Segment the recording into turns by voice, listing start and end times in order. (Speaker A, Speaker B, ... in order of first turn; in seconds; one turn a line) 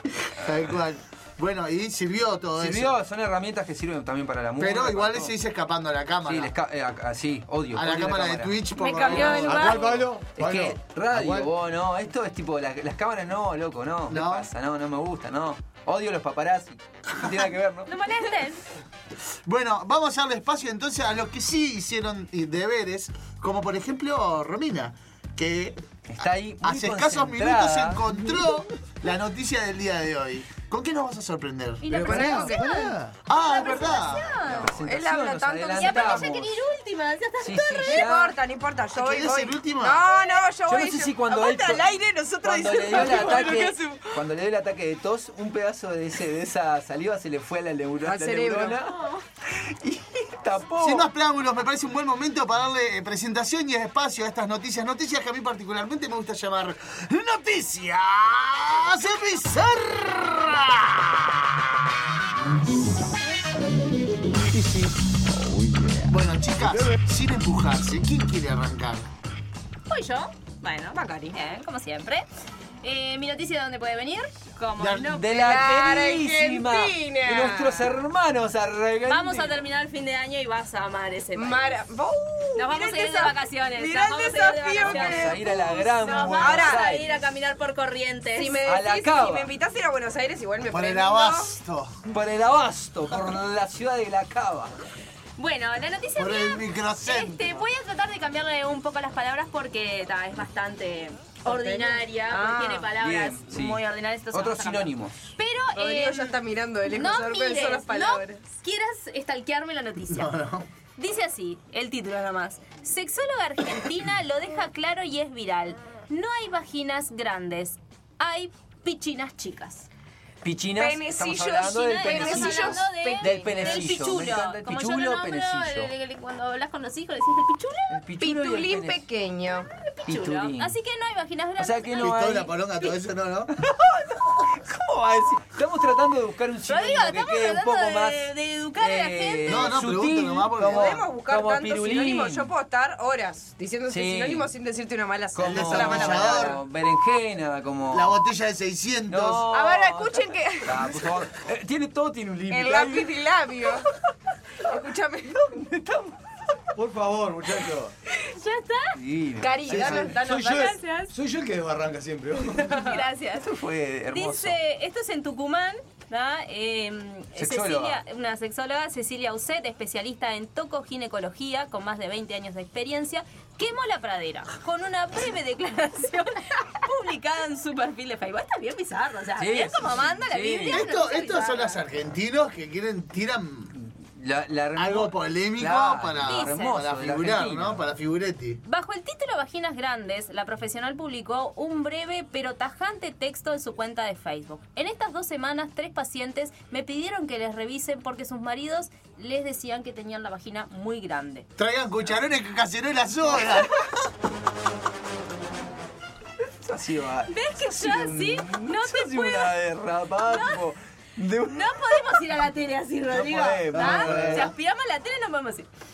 Speaker A: 0.2-2.9
Speaker B: 2.6-5.3
Speaker A: 4.6-6.5
Speaker B: 6.2-8.6
Speaker A: 7.7-9.8
Speaker C: 8.8-10.0
Speaker D: 9.3-11.5
Speaker B: 10.3-17.9
Speaker A: 14.1-14.5
Speaker C: 17.9-18.6
Speaker A: 19.4-25.8
Speaker B: 26.1-28.0
Speaker A: 26.6-32.6
Speaker C: 31.8-34.7
Speaker D: 31.9-33.2
Speaker E: 32.0-32.9
Speaker A: 33.2-34.3
Speaker B: 34.4-36.5
Speaker E: 34.6-36.3
Speaker C: 35.8-38.0
Speaker B: 37.4-38.3
Speaker E: 37.9-44.2
Speaker A: 38.9-40.1
Speaker B: 40.7-49.0
Speaker E: 48.0-48.8
Speaker B: 49.6-51.1
Speaker A: 50.8-61.5
Speaker D: 64.5-64.9
Speaker A: 66.1-69.1
Speaker C: 69.9-72.2
Speaker E: 70.9-71.4
Speaker C: 72.8-75.6
Speaker A: 74.8-75.2
Speaker B: 75.1-79.6
Speaker E: 75.4-77.9
Speaker C: 79.1-81.8
Speaker E: 81.3-86.8
Speaker C: 82.5-88.6
Speaker B: 84.8-87.2
Speaker E: 88.3-91.5
Speaker B: 88.6-89.5
Speaker A: 90.7-92.0
Speaker B: 92.1-94.7
Speaker C: 95.4-110.3
Speaker A: 96.2-97.4
Speaker E: 101.4-102.9
Speaker B: 103.0-105.3
Speaker E: 105.7-108.4
Speaker A: 110.1-110.7
Speaker C: 111.0-119.9
Speaker B: 120.4-125.9
Speaker E: 120.8-124.2
Speaker C: 121.8-128.0
Speaker B: 127.9-129.0
Speaker E: 128.2-129.7
Speaker C: 129.8-132.9
Speaker B: 130.1-130.7
Speaker B: 131.6-132.5
Speaker A: 132.0-133.5
Speaker B: 133.6-142.5
Speaker C: 136.7-139.8
Speaker A: 139.5-141.0
Speaker E: 140.6-146.6
Speaker B: 143.9-144.5
Speaker B: 145.3-148.2
Speaker A: 145.4-146.6
Speaker A: 147.9-149.5
Speaker B: 149.1-153.1
Speaker E: 149.5-151.0
Speaker E: 152.5-153.8
Speaker E: 154.6-155.6
Speaker B: 155.7-156.1
Speaker D: 156.7-157.9
Speaker C: 158.3-159.0
Speaker B: 158.9-160.1
Speaker E: 159.4-160.7
Speaker D: 159.7-162.7
Speaker C: 160.2-161.1
Speaker C: 162.6-163.5
Speaker B: 163.4-164.6
Speaker C: 164.1-181.8
Speaker B: 167.3-168.0
Speaker B: 179.4-180.9
Speaker A: 180.7-183.7
Speaker B: 183.8-187.8
Speaker A: 184.8-188.6
Speaker C: 186.2-186.8
Speaker C: 188.6-201.5
Speaker A: 201.6-203.9
Speaker B: 206.6-212.0
Speaker C: 207.3-209.5
Speaker C: 210.2-210.6
Speaker C: 211.5-215.7
Speaker B: 213.1-214.5
Speaker D: 213.2-214.5